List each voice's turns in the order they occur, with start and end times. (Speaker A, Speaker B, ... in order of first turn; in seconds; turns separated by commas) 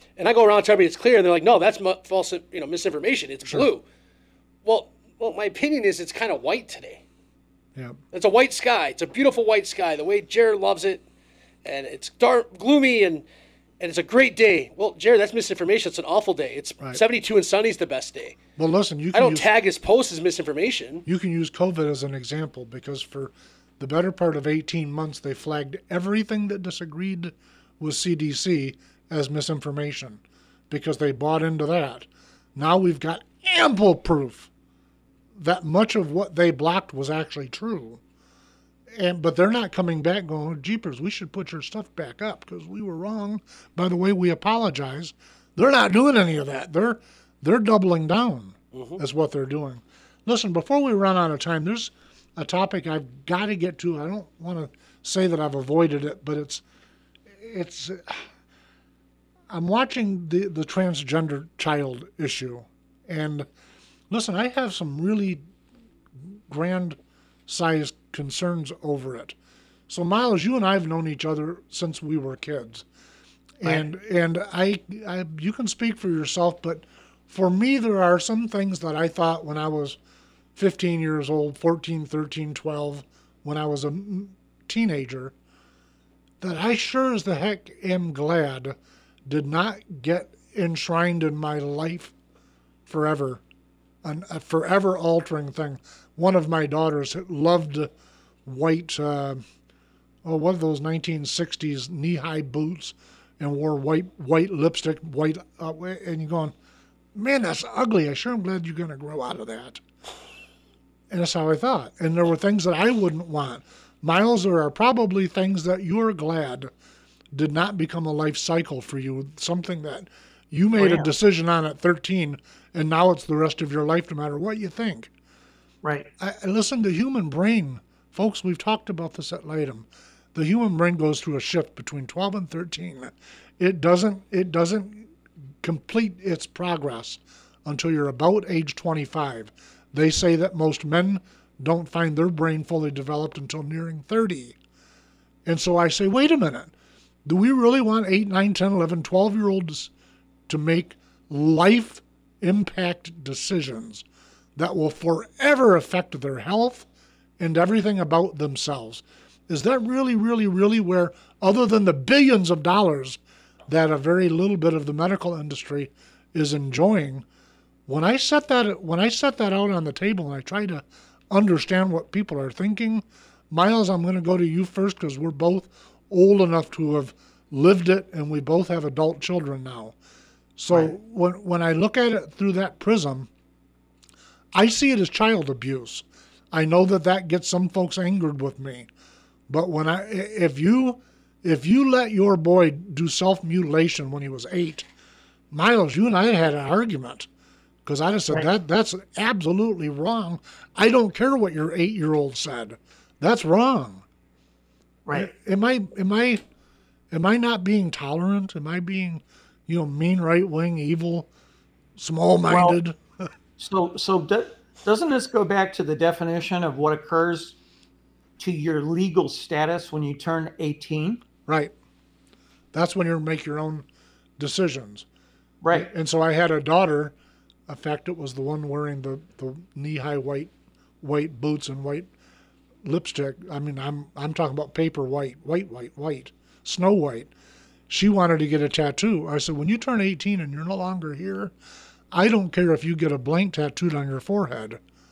Speaker A: 0.2-3.8, Speaker A: 4.7-7.0, Speaker A: 8.1-11.0, Speaker A: 11.7-13.2, Speaker A: 13.8-18.4, Speaker B: 18.6-19.5, Speaker A: 19.1-21.1, Speaker B: 21.1-34.5, Speaker B: 35.4-38.0, Speaker B: 39.0-56.6, Speaker A: 48.7-49.0, Speaker B: 57.4-58.3, Speaker B: 59.5-63.5, Speaker B: 64.1-65.4, Speaker B: 66.2-69.4, Speaker B: 69.9-72.9, Speaker B: 73.6-80.0, Speaker B: 80.5-85.3, Speaker B: 86.4-92.1, Speaker B: 92.9-93.4, Speaker B: 94.0-97.9, Speaker B: 98.5-99.4, Speaker B: 100.2-106.5, Speaker B: 107.1-109.8, Speaker B: 111.1-116.7, Speaker B: 117.3-125.1, Speaker C: 120.8-121.1, Speaker C: 125.8-126.1, Speaker B: 126.2-135.1, Speaker B: 135.6-144.6, Speaker B: 145.5-146.7, Speaker B: 147.2-149.9, Speaker B: 150.5-154.1, Speaker B: 154.6-156.9, Speaker B: 157.4-167.2, Speaker B: 167.9-180.0, Speaker B: 180.6-183.3, Speaker B: 184.6-188.9, Speaker B: 189.5-194.9, Speaker B: 195.5-197.3, Speaker B: 197.8-204.1, Speaker C: 205.1-205.3, Speaker B: 205.1-206.4, Speaker B: 207.1-211.3, Speaker B: 212.0-213.2, Speaker C: 212.5-212.8, Speaker C: 213.6-217.6, Speaker C: 218.4-221.2, Speaker B: 221.5-221.7, Speaker B: 222.7-223.8, Speaker B: 224.4-225.1, Speaker C: 225.6-225.9, Speaker B: 225.7-227.2, Speaker B: 227.7-232.1, Speaker B: 232.8-237.3, Speaker B: 237.9-241.5, Speaker B: 242.1-244.8